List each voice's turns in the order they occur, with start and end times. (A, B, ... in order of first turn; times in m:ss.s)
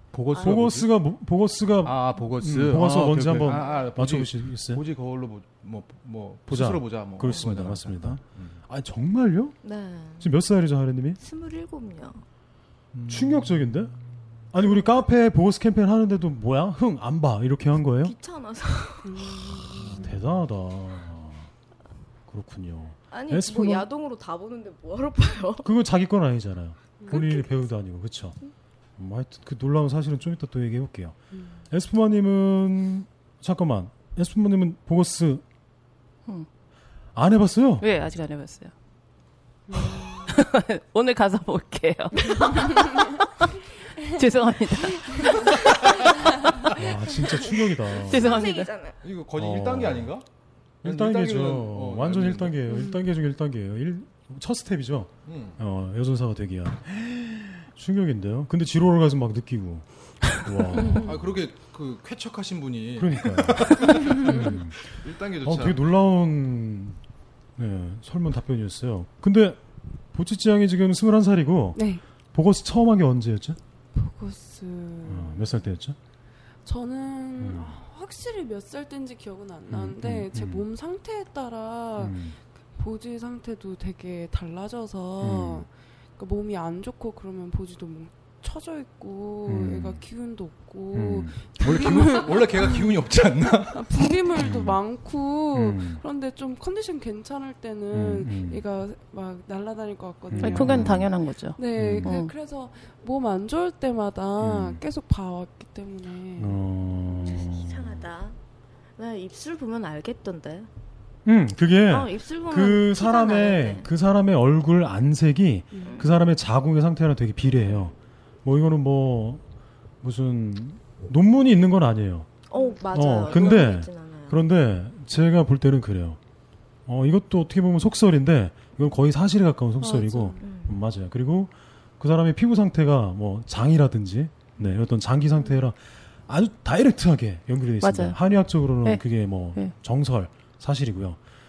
0:00.1-0:00.9 A
0:00.3-0:04.8 B
0:01.8-0:08.6 A
0:06.5-0:09.6 B
0:09.6-0:10.3 C
0:10.2-0:11.2 B
0:11.2-0:12.2 C
0:12.9-0:14.0 A
0:13.1-0:13.9 B
0:14.5-0:18.2 B
0:18.0-0:19.8 C
0:19.0-0:20.0 D
0:19.8-0:21.5 B
0:22.3-0:23.9 B
0:23.1-0:25.7 C
0:25.6-0:28.4 B
0:27.0-0:27.4 D
0:27.1-0:27.5 C
0:29.0-0:31.2 B
0:31.7-0:35.4 B
0:37.2-0:37.9 B
0:37.8-0:38.7 E
0:39.7-0:40.3 D
0:39.8-0:43.2 E
0:44.1-0:45.9 E
0:44.9-0:45.4 D
0:46.7-0:48.4 B
0:48.0-0:48.7 E
0:48.1-0:49.0 C
0:49.0-0:50.2 A
0:49.4-0:50.1 B
0:50.8-0:52.6 A
0:50.8-1:01.2 B
0:52.7-0:53.0 D
0:55.3-0:55.6 A
1:00.8-1:01.1 D
1:00.9-1:05.8 A
1:03.0-1:07.0 B
1:07.6-1:09.6 B
1:10.1-1:13.6 B
1:11.8-1:12.0 D
1:14.0-1:15.6 D
1:15.1-1:16.0 B
1:16.6-1:22.2 D
1:17.4-1:17.8 B
1:19.7-1:20.7 B
1:22.0-1:22.4 B
1:22.8-1:33.0 D
1:25.2-1:25.7 B
1:29.5-1:30.0 B
1:30.9-1:31.4 B
1:31.6-1:34.0 A
1:33.7-1:41.0 D
1:34.4-1:34.8 B
1:35.5-1:36.0 B
1:37.9-1:38.6 B
1:40.3-1:41.1 B
1:40.4-1:42.3 E
1:41.6-1:46.6 D
1:41.8-1:42.2 B
1:44.4-1:44.8 B
1:46.4-1:48.0 B
1:47.2-1:48.4 C
1:49.0-1:50.7 C
1:51.2-1:59.4 B
1:51.9-1:53.9 C
1:55.7-1:56.1 D
1:55.8-1:56.1 C
2:00.0-2:02.3 B
2:02.5-2:04.4 C
2:02.6-2:02.8 D
2:02.9-2:06.2 B
2:06.9-2:21.2 B
2:09.8-2:10.4 D
2:10.4-2:10.8 C
2:17.8-2:18.2 E